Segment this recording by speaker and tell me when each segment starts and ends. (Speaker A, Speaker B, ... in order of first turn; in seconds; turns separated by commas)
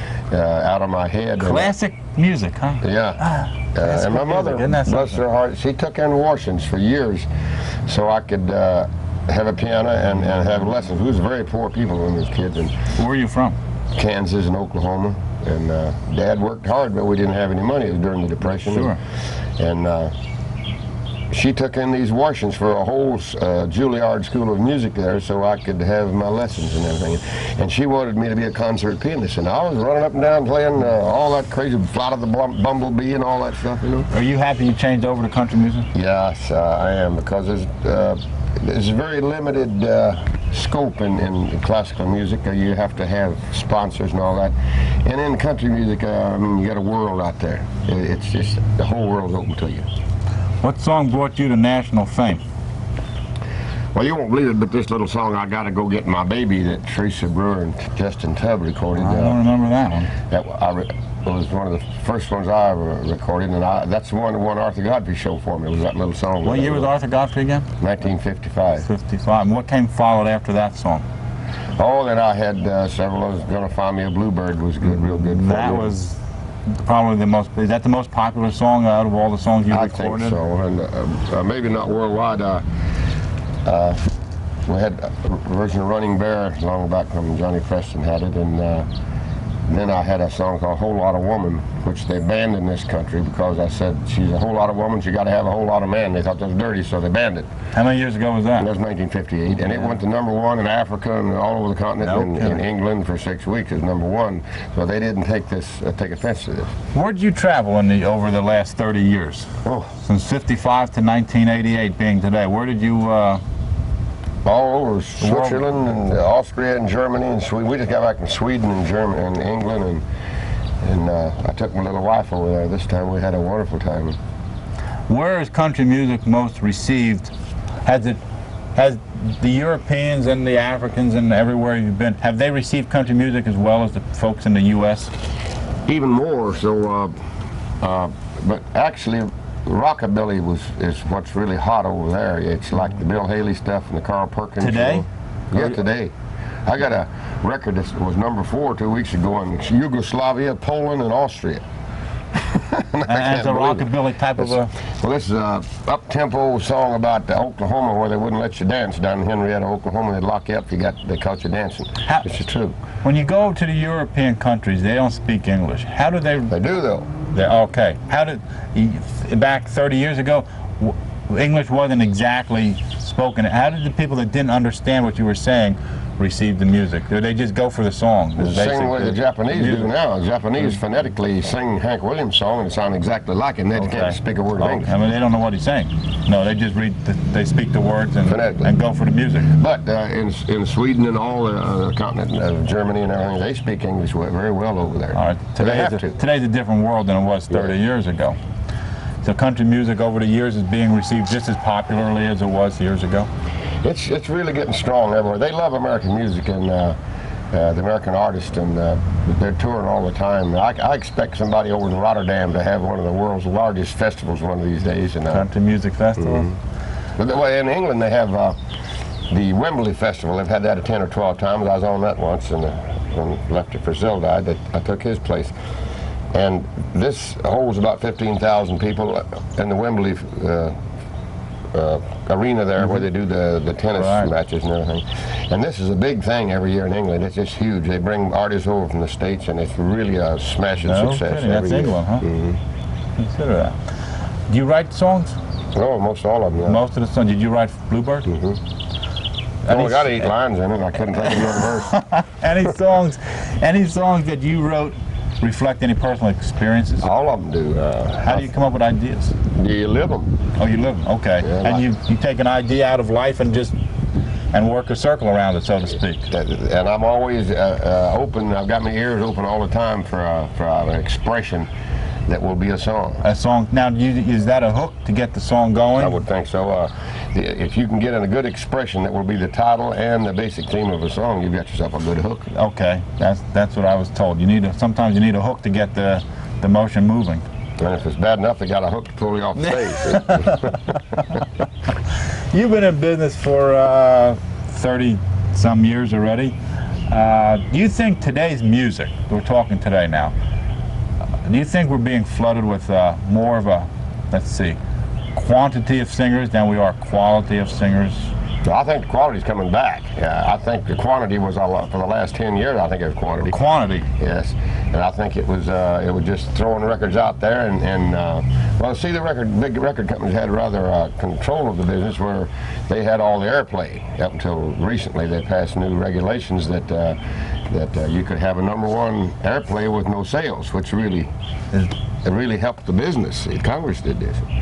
Speaker A: 0.3-1.7, Speaker B: 1.4-5.2, Speaker A: 2.8-3.2, Speaker A: 3.7-7.3, Speaker A: 7.8-12.7, Speaker B: 12.9-13.6, Speaker A: 13.9-18.9, Speaker B: 18.6-19.0, Speaker A: 19.6-20.1, Speaker A: 21.3-34.1, Speaker B: 34.1-35.9, Speaker A: 35.9-49.9, Speaker B: 50.6-52.4, Speaker A: 53.9-59.4, Speaker B: 59.0-60.1, Speaker A: 60.3-66.9, Speaker B: 66.4-67.7, Speaker A: 67.8-68.9, Speaker B: 68.8-71.0, Speaker A: 71.8-75.9, Speaker B: 74.8-76.2, Speaker B: 76.8-80.4, Speaker A: 79.7-82.6, Speaker A: 83.6-84.0, Speaker A: 84.7-88.9, Speaker A: 89.7-97.5, Speaker B: 97.7-98.7, Speaker A: 98.6-106.7, Speaker B: 102.0-102.6, Speaker B: 106.9-109.5, Speaker A: 109.6-109.9, Speaker B: 110.0-113.4, Speaker A: 114.4-120.0, Speaker B: 115.2-115.6, Speaker A: 120.8-124.2, Speaker B: 125.1-127.3, Speaker B: 127.8-128.2, Speaker B: 128.7-135.1, Speaker A: 135.8-137.1, Speaker A: 137.8-146.1, Speaker B: 144.6-145.0, Speaker A: 146.6-151.6, Speaker A: 152.3-162.7, Speaker B: 153.1-154.7, Speaker B: 163.0-166.5, Speaker A: 166.5-167.1, Speaker B: 167.3-179.9, Speaker A: 178.4-184.9, Speaker B: 183.7-189.5, Speaker A: 188.2-188.7, Speaker A: 189.5-196.2, Speaker B: 195.1-198.4, Speaker B: 199.2-203.3, Speaker A: 203.8-206.9, Speaker A: 207.5-215.4, Speaker B: 215.3-216.5, Speaker A: 216.2-216.5, Speaker A: 217.2-218.6, Speaker A: 219.3-225.5, Speaker A: 226.3-230.8, Speaker A: 231.7-242.6, Speaker B: 234.0-234.3, Speaker B: 240.8-242.3, Speaker B: 243.2-243.8, Speaker B: 244.5-245.4, Speaker A: 245.7-246.8, Speaker B: 246.6-248.3, Speaker A: 248.3-248.6, Speaker B: 249.6-250.3, Speaker A: 249.7-252.0, Speaker B: 251.6-257.1, Speaker A: 257.0-258.5, Speaker B: 258.2-259.3, Speaker A: 259.5-260.4, Speaker B: 260.6-263.7, Speaker A: 261.4-261.8, Speaker B: 264.5-266.2, Speaker A: 266.3-271.7, Speaker A: 272.3-273.2, Speaker B: 273.2-276.2, Speaker A: 276.0-282.5, Speaker B: 282.5-287.4, Speaker A: 287.8-290.8, Speaker B: 289.6-291.4, Speaker B: 292.5-296.5, Speaker B: 297.1-300.3, Speaker B: 301.4-304.8, Speaker B: 305.3-308.3, Speaker A: 308.6-313.6, Speaker B: 313.4-314.1, Speaker A: 314.2-331.3, Speaker A: 332.2-334.4